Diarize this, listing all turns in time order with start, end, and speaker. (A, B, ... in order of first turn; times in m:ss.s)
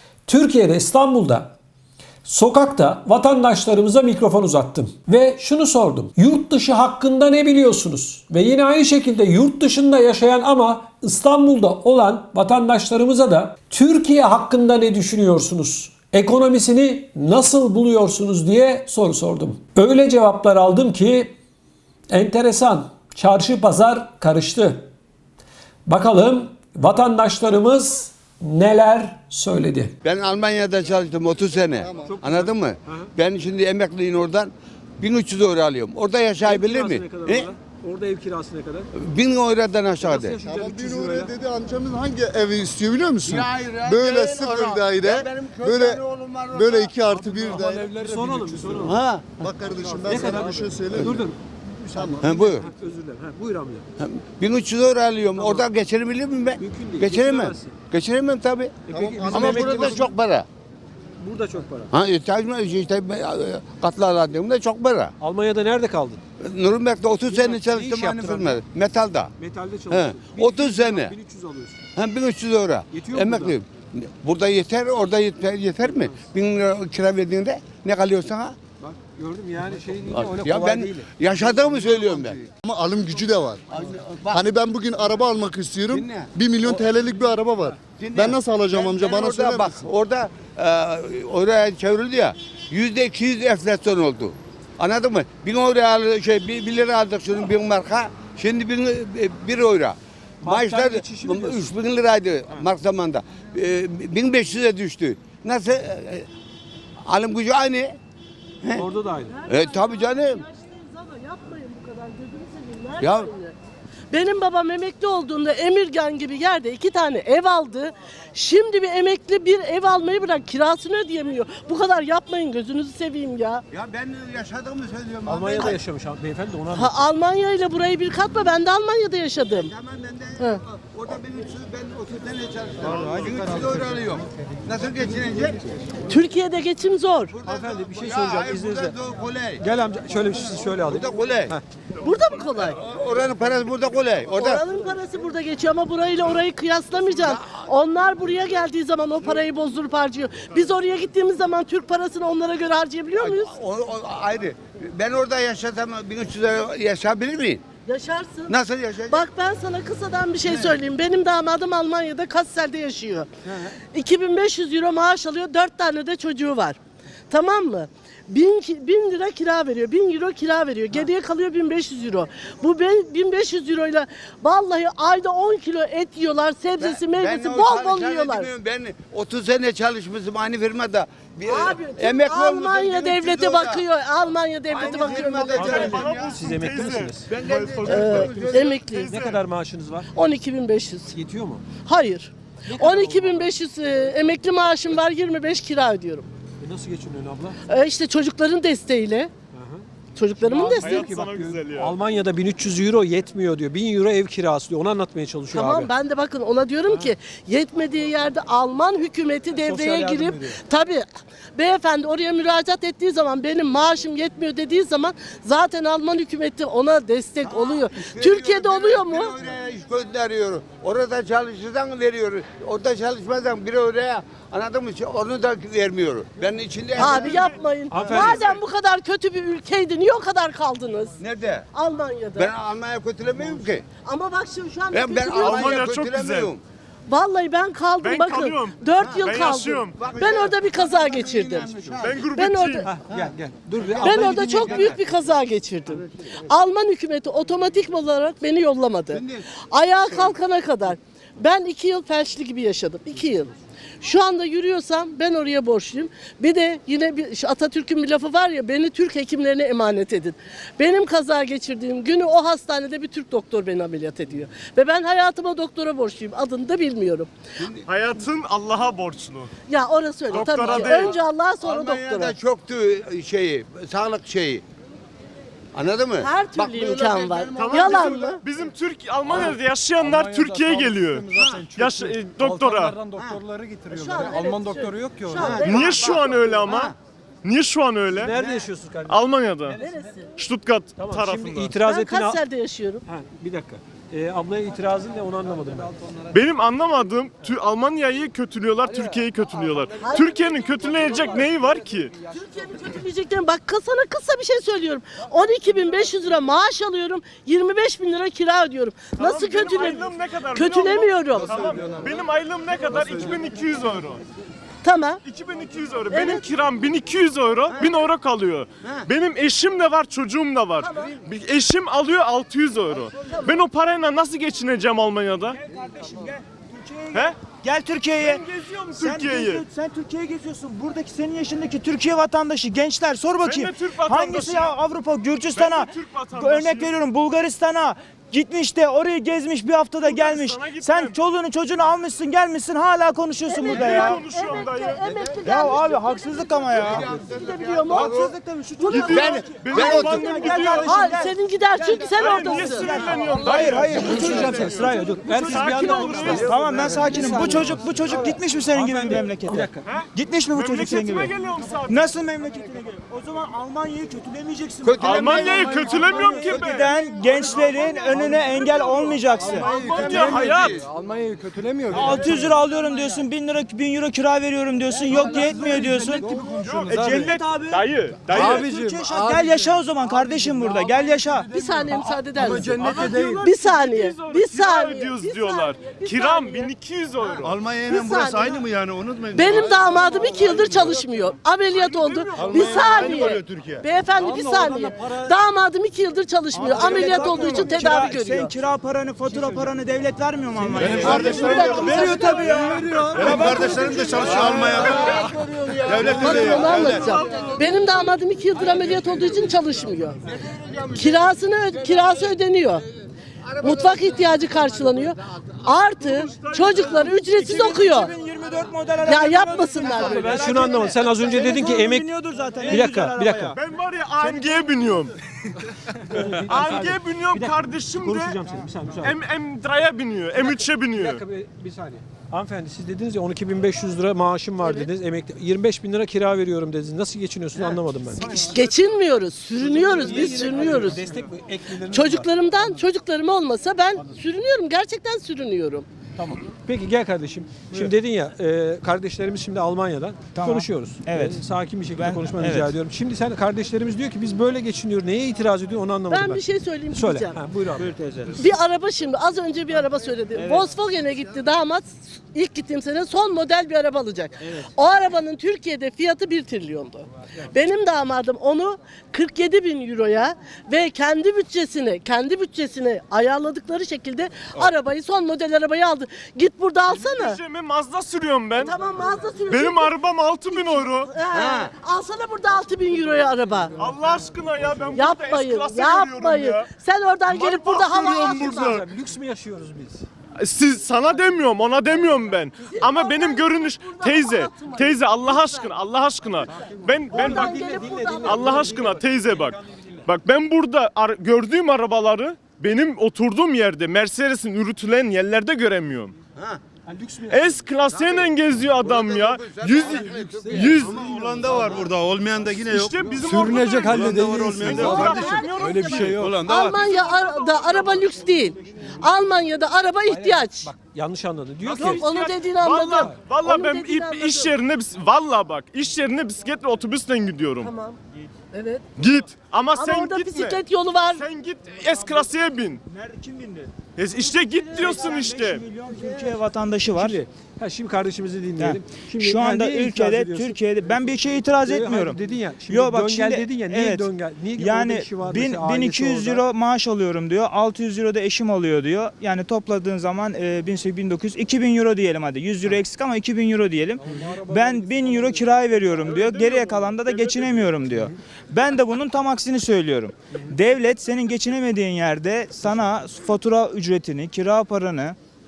0:00.2-0:01.5 A
0:02.2-0:21.3 A
0:22.1-0:24.9 A
0:25.8-0:29.9 A
0:30.0-0:37.5 B
0:31.8-0:32.1 C
0:32.0-0:33.1 A
0:36.4-0:38.9 A
0:38.9-0:40.4 B
0:40.0-0:41.3 A
0:40.4-0:48.0 C
0:43.2-0:47.0 B
0:47.1-0:49.0 A
0:47.3-0:48.9 D
0:48.8-0:49.5 B
0:49.4-0:51.2 C
0:50.0-0:53.8 A
0:51.9-0:52.3 C
0:52.2-0:52.7 B
0:54.0-1:00.5 B
0:55.4-0:55.7 A
0:56.6-0:57.8 A
0:58.9-1:00.1 A
0:58.9-1:00.1 C
1:01.2-1:01.9 A
1:01.9-1:05.1 B
1:05.2-1:06.2 A
1:06.4-1:09.3 B
1:07.3-1:08.6 A
1:09.4-1:11.9 A
1:09.9-1:11.1 B
1:12.0-1:18.6 B
1:12.9-1:13.6 A
1:15.9-1:16.2 A
1:18.8-1:22.4 A
1:20.1-1:22.4 B
1:22.5-1:23.6 C
1:23.7-1:24.5 B
1:24.3-1:29.8 C
1:25.9-1:26.3 B
1:28.0-1:46.3 B
1:40.4-1:41.7 A
1:47.0-1:48.0 B
1:48.7-1:49.3 A
1:49.3-1:53.6 E
1:49.5-1:50.4 B
1:53.0-1:53.3 B
1:54.1-2:03.6 E
2:03.7-2:05.8 B
2:05.2-2:07.1 A
2:06.7-2:09.7 E
2:09.5-2:15.6 B
2:12.8-2:13.4 F
2:13.0-2:13.9 A
2:16.1-2:17.3 E
2:17.3-2:19.6 B
2:17.4-2:18.9 A
2:19.6-2:21.6 A
2:20.8-2:21.6 B
2:22.0-2:22.8 E
2:22.6-2:24.6 B
2:24.3-2:33.5 E
2:27.2-2:27.6 B
2:33.2-2:37.6 B
2:37.8-2:38.6 E
2:38.5-2:39.2 B
2:39.1-2:43.3 E
2:43.4-2:43.7 B
2:43.9-2:46.8 E
2:47.3-2:58.5 E
2:56.8-3:03.8 B
3:01.4-3:05.9 E
3:04.7-3:06.4 B
3:05.3-3:09.4 F
3:05.5-3:07.3 A
3:07.3-3:08.8 B
3:07.8-3:09.1 E
3:09.1-3:10.1 A
3:10.1-3:11.1 E
3:11.1-3:11.6 A
3:11.8-3:16.3 E
3:12.7-3:13.5 A
3:16.6-3:17.6 A
3:17.7-3:19.3 E
3:19.5-3:19.8 A
3:20.1-3:21.2 E
3:20.4-3:25.9 A
3:20.8-3:21.9 F
3:25.5-3:39.3 E
3:26.9-3:27.1 A
3:29.5-3:30.6 A
3:37.4-3:47.5 B
3:47.0-3:51.2 E
3:47.9-3:48.6 A
3:51.2-3:51.7 B
3:51.7-3:52.5 E
3:52.3-3:53.8 B
3:54.0-3:55.8 E
3:54.9-3:56.6 B
3:55.4-3:56.5 F
3:57.1-4:02.9 E
3:58.0-4:00.0 F
3:59.0-3:59.2 B
4:00.0-4:02.3 B
4:02.0-4:02.9 F
4:02.8-4:05.0 A
4:03.8-4:04.9 B
4:04.0-4:27.3 E
4:09.1-4:09.4 B
4:27.6-4:27.8 B
4:27.8-4:29.5 F
4:29.7-4:32.4 E
4:30.3-4:31.2 F
4:30.4-4:34.6 B
4:35.7-4:38.4 B
4:36.2-4:38.4 E
4:37.6-4:42.9 F
4:39.3-4:45.7 D
4:43.9-4:46.1 E
4:45.3-4:46.9 B
4:45.6-4:48.3 F
4:48.1-4:49.2 A
4:49.1-4:49.8 F
4:49.8-4:50.3 E
4:50.4-4:51.8 F
4:51.0-4:52.4 A
4:51.8-4:53.0 E
4:53.0-4:56.0 A
4:56.3-5:02.1 F
5:00.0-5:01.2 E
5:02.3-5:11.5 E
5:09.2-5:14.2 F
5:14.8-5:15.2 E
5:15.2-5:25.6 F
5:16.1-5:16.4 E
5:20.8-5:21.2 E
5:25.5-5:28.4 G
5:28.2-5:29.6 F
5:29.0-5:44.2 G
5:33.4-5:34.7 F
5:35.5-5:36.9 F
5:40.0-5:41.2 F
5:43.5-5:46.3 E
5:43.6-5:45.0 F
5:45.0-5:45.8 B
5:45.4-5:47.0 G
5:46.5-5:48.4 B
5:47.0-5:48.2 E
5:47.9-6:01.3 G
5:48.8-5:49.3 E
5:48.9-5:51.1 F
5:48.9-5:50.4 B
5:50.8-5:53.0 E
5:52.2-5:56.9 F
5:54.0-5:59.8 A
5:59.8-6:02.1 F
6:01.9-6:10.3 G
6:04.8-6:06.4 B
6:05.0-6:10.8 F
6:09.4-6:12.6 D
6:09.4-6:10.8 B
6:11.9-6:16.2 G
6:15.1-6:17.3 A
6:16.2-6:17.2 D
6:16.6-6:18.7 F
6:16.8-6:21.5 G
6:18.3-6:19.8 D
6:20.2-6:20.8 A
6:21.5-6:26.7 E
6:21.8-6:22.7 A
6:22.3-6:23.4 D
6:22.8-6:27.5 F
6:27.4-6:29.6 C
6:27.8-6:28.6 E
6:28.1-6:28.6 D
6:29.3-6:38.5 E
6:29.4-6:31.0 D
6:30.3-6:30.9 F
6:31.7-6:33.4 F
6:32.4-6:33.4 D
6:33.5-6:33.8 C
6:34.1-6:35.3 D
6:36.5-6:45.2 G
6:40.7-6:42.8 D
6:40.7-6:41.8 B
6:40.8-6:41.9 C
6:40.9-6:42.8 E
6:41.2-6:42.3 F
6:42.8-6:43.0 A
6:43.1-6:47.0 C
6:43.1-6:48.0 B
6:46.0-6:50.2 E
6:48.6-6:49.4 B
6:50.2-6:52.4 B
6:50.9-6:52.8 E
6:53.4-6:55.1 B
6:53.6-6:58.1 E
6:56.0-6:57.1 F
6:56.7-7:03.6 G
6:59.0-7:00.6 E
7:00.0-7:02.1 A
7:02.7-7:03.6 A
7:03.6-7:05.1 F
7:06.0-7:09.2 A
7:06.4-7:08.4 F
7:09.0-7:11.2 F
7:10.4-7:18.7 A
7:18.3-7:21.0 E
7:19.5-7:22.8 A
7:21.9-7:25.9 E
7:26.2-7:38.0 A
7:30.3-7:31.4 G
7:32.0-7:32.7 G
7:36.1-7:37.4 E
7:37.8-7:38.4 G
7:38.4-7:57.4 E
7:40.3-7:40.7 G
7:56.9-7:58.7 F
7:58.6-7:59.9 E
7:59.5-8:01.1 F
8:00.5-8:03.7 E
8:01.3-8:01.7 B
8:03.8-8:06.7 F
8:04.9-8:08.8 E
8:07.3-8:08.8 F
8:08.2-8:10.1 A
8:10.4-8:17.6 F
8:12.6-8:15.7 E
8:17.1-8:20.0 A
8:17.1-8:18.8 E
8:18.2-8:26.1 F
8:26.9-8:27.6 A
8:27.3-8:31.0 F
8:27.9-8:31.9 B
8:29.8-8:31.6 D
8:31.2-8:33.0 C
8:32.7-8:37.9 F
8:33.1-8:36.6 D
8:33.6-8:34.9 C
8:34.8-8:40.7 E
8:36.3-8:36.8 B
8:40.1-8:42.2 A
8:41.6-8:47.7 F
8:41.8-8:44.5 E
8:47.6-8:48.0 E
8:48.5-8:48.8 E
8:49.0-8:50.6 F
8:49.8-8:51.2 E
8:51.1-8:52.8 F
8:51.9-8:52.3 G
8:52.8-8:53.7 G
8:54.0-8:55.6 F
8:54.3-8:57.2 G
8:56.9-9:01.1 A
8:58.6-9:02.2 G
9:01.6-9:06.4 A
9:02.7-9:25.2 G
9:14.1-9:15.4 A
9:16.0-9:17.6 F